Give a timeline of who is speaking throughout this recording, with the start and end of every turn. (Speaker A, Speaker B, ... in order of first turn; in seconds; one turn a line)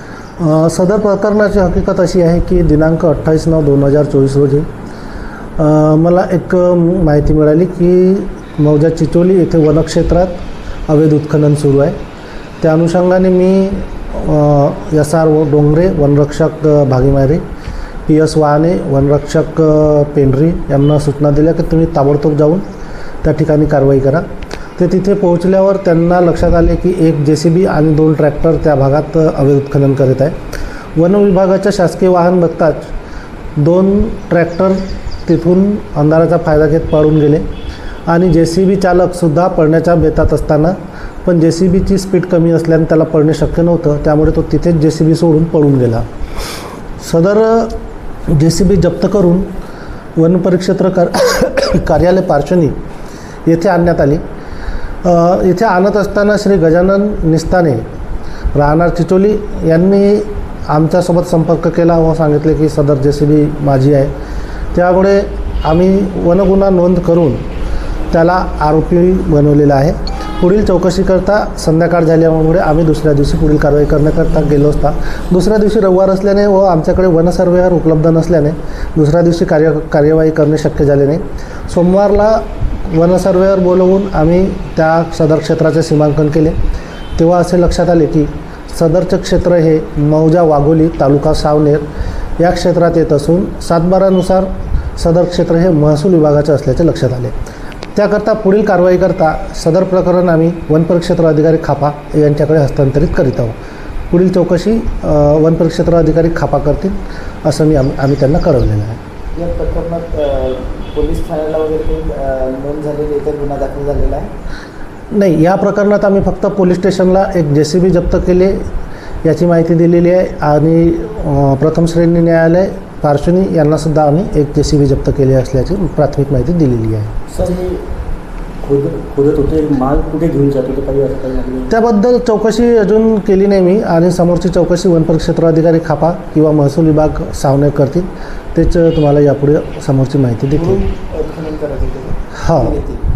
Speaker A: 0.4-4.7
Speaker A: 5.6-10.4
Speaker A: 10.9-11.9
Speaker A: 12.6-17.4
Speaker A: 18.1-22.6
Speaker A: 23.2-24.2
Speaker A: 24.8-30.4
Speaker A: 30.9-32.9
Speaker A: 33.6-37.4
Speaker A: 38.1-46.0
Speaker A: 47.0-47.8
Speaker A: 48.3-49.5
Speaker A: 50.2-52.7
Speaker A: 53.5-54.2
Speaker A: 55.0-57.8
Speaker A: 58.5-64.1
Speaker A: 64.7-67.4
Speaker A: 68.1-86.5
Speaker A: 87.2-91.8
Speaker A: 92.4-97.3
Speaker A: 97.9-103.6
Speaker A: 104.1-109.0
Speaker B: 109.3-114.3
Speaker A: 115.1-118.7
Speaker A: 119.2-127.1
Speaker C: 127.3-127.8
Speaker C: 128.6-131.7
Speaker A: 131.7-140.8
Speaker B: 140.5-143.0
Speaker A: 142.3-142.8